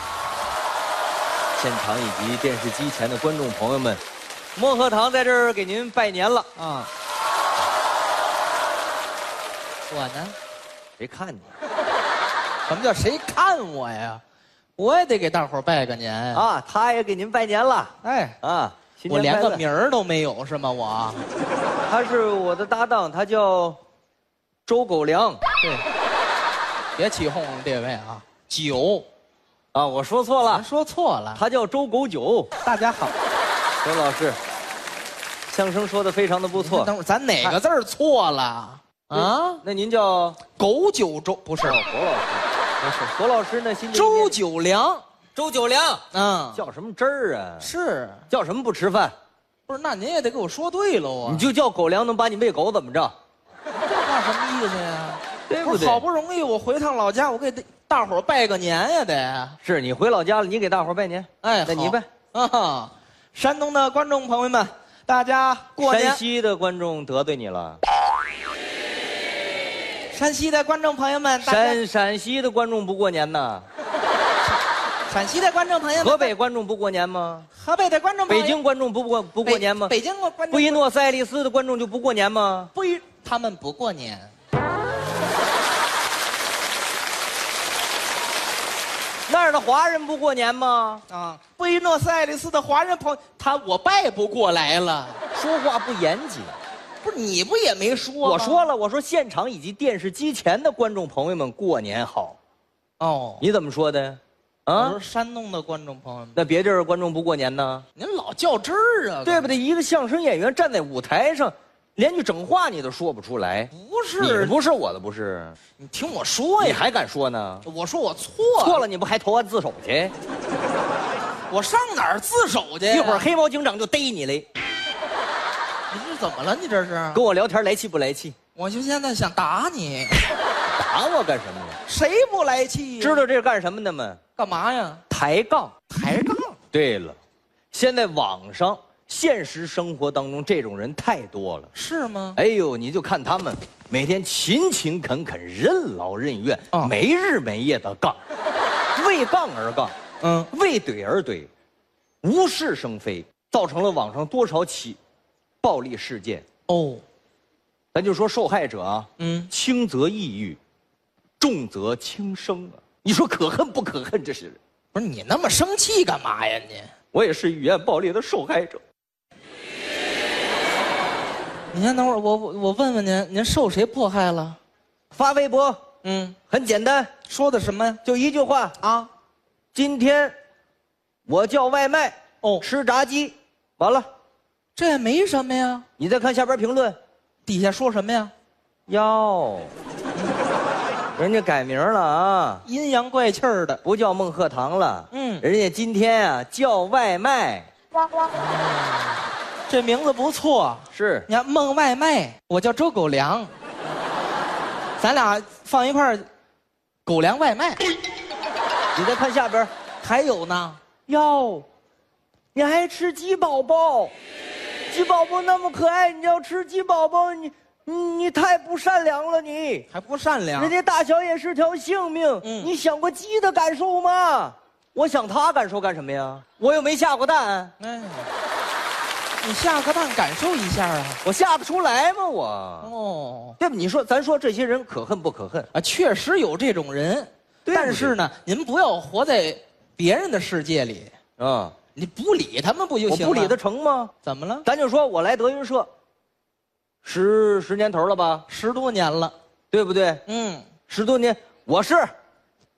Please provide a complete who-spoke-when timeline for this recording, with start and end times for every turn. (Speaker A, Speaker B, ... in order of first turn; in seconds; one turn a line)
Speaker A: 1.6-4.0
Speaker A: 4.6-6.5
Speaker B: 6.6-6.9
Speaker B: 9.9-10.4
Speaker A: 11.0-11.5
Speaker B: 12.7-14.2
Speaker B: 14.8-16.5
Speaker A: 16.3-19.6
Speaker B: 18.0-18.4
Speaker B: 19.1-21.2
Speaker A: 21.9-23.8
Speaker A: 24.7-25.4
Speaker B: 25.6-25.9
Speaker B: 27.0-29.1
Speaker A: 29.7-30.7
Speaker B: 30.5-31.4
Speaker A: 31.4-32.5
Speaker B: 32.6-33.1
Speaker A: 33.8-34.4
Speaker A: 35.5-37.6
Speaker B: 36.5-39.6
Speaker A: 39.1-40.4
Speaker B: 40.6-41.9
Speaker A: 41.6-44.4
Speaker B: 43.9-45.0
Speaker A: 45.4-46.0
Speaker B: 46.1-46.7
Speaker A: 46.5-47.7
Speaker B: 47.6-48.2
Speaker A: 48.3-49.1
Speaker B: 49.7-51.5
Speaker A: 51.2-53.1
Speaker B: 53.7-59.6
Speaker A: 55.5-56.0
Speaker A: 59.6-62.1
Speaker B: 61.4-66.2
Speaker A: 65.8-67.8
Speaker B: 70.1-71.8
Speaker A: 71.4-73.7
Speaker B: 75.1-76.3
Speaker A: 76.0-77.5
Speaker B: 77.5-78.6
Speaker A: 78.3-80.0
Speaker B: 79.4-80.8
Speaker A: 80.5-82.7
Speaker B: 82.8-84.3
Speaker A: 89.3-91.0
Speaker B: 91.1-95.2
Speaker A: 95.3-96.6
Speaker B: 97.0-98.7
Speaker A: 98.2-102.4
Speaker B: 103.0-103.5
Speaker A: 103.4-105.0
Speaker B: 104.8-106.4
Speaker A: 106.3-107.8
Speaker B: 108.0-109.5
Speaker A: 109.2-115.6
Speaker B: 113.7-114.6
Speaker B: 115.8-116.8
Speaker A: 116.6-117.7
Speaker B: 117.6-118.8
Speaker A: 118.6-120.1
Speaker B: 121.5-123.3
Speaker A: 122.9-124.5
Speaker B: 125.9-127.2
Speaker A: 127.1-128.3
Speaker B: 128.6-130.2
Speaker A: 130.7-131.8
Speaker B: 131.9-133.2
Speaker A: 133.0-134.2
Speaker B: 134.4-135.0
Speaker A: 135.1-135.8
Speaker B: 135.9-136.6
Speaker A: 136.7-137.2
Speaker A: 137.7-141.7
Speaker B: 141.7-142.4
Speaker A: 142.4-148.2
Speaker A: 148.9-149.9
Speaker B: 150.2-150.5
Speaker A: 150.5-151.5
Speaker A: 152.2-155.0
Speaker A: 155.6-156.4
Speaker B: 156.7-157.0
Speaker A: 157.9-160.6
Speaker B: 159.2-159.5
Speaker A: 161.4-164.6
Speaker B: 164.9-166.9
Speaker A: 167.1-168.8
Speaker B: 171.7-174.6
Speaker A: 175.1-175.8
Speaker B: 176.0-176.4
Speaker A: 176.5-177.1
Speaker B: 177.3-178.0
Speaker A: 178.0-178.8
Speaker B: 178.8-179.1
Speaker A: 179.7-180.3
Speaker A: 181.3-184.1
Speaker B: 184.8-185.8
Speaker A: 186.0-187.0
Speaker B: 187.5-188.3
Speaker A: 188.9-189.7
Speaker A: 191.2-192.7
Speaker B: 192.6-193.8
Speaker A: 193.8-197.7
Speaker B: 195.1-195.4
Speaker B: 198.3-203.5
Speaker A: 200.9-201.3
Speaker B: 205.0-206.3
Speaker B: 207.1-207.9
Speaker A: 208.9-209.7
Speaker B: 210.0-210.8
Speaker A: 211.1-211.7
Speaker A: 212.6-214.1
Speaker A: 214.9-219.9
Speaker B: 219.9-220.7
Speaker A: 220.5-227.7
Speaker B: 222.4-222.7
Speaker B: 227.8-228.3
Speaker B: 229.4-231.2
Speaker A: 231.2-232.9
Speaker B: 232.8-233.6
Speaker A: 233.6-235.7
Speaker B: 235.7-241.1
Speaker A: 237.7-238.2
Speaker A: 241.4-241.8
Speaker B: 241.9-243.6
Speaker A: 243.1-244.1
Speaker B: 244.2-244.7
Speaker A: 244.7-245.9
Speaker A: 247.0-248.4
Speaker B: 248.5-249.3
Speaker A: 249.7-250.2
Speaker B: 250.3-250.7
Speaker A: 250.9-252.1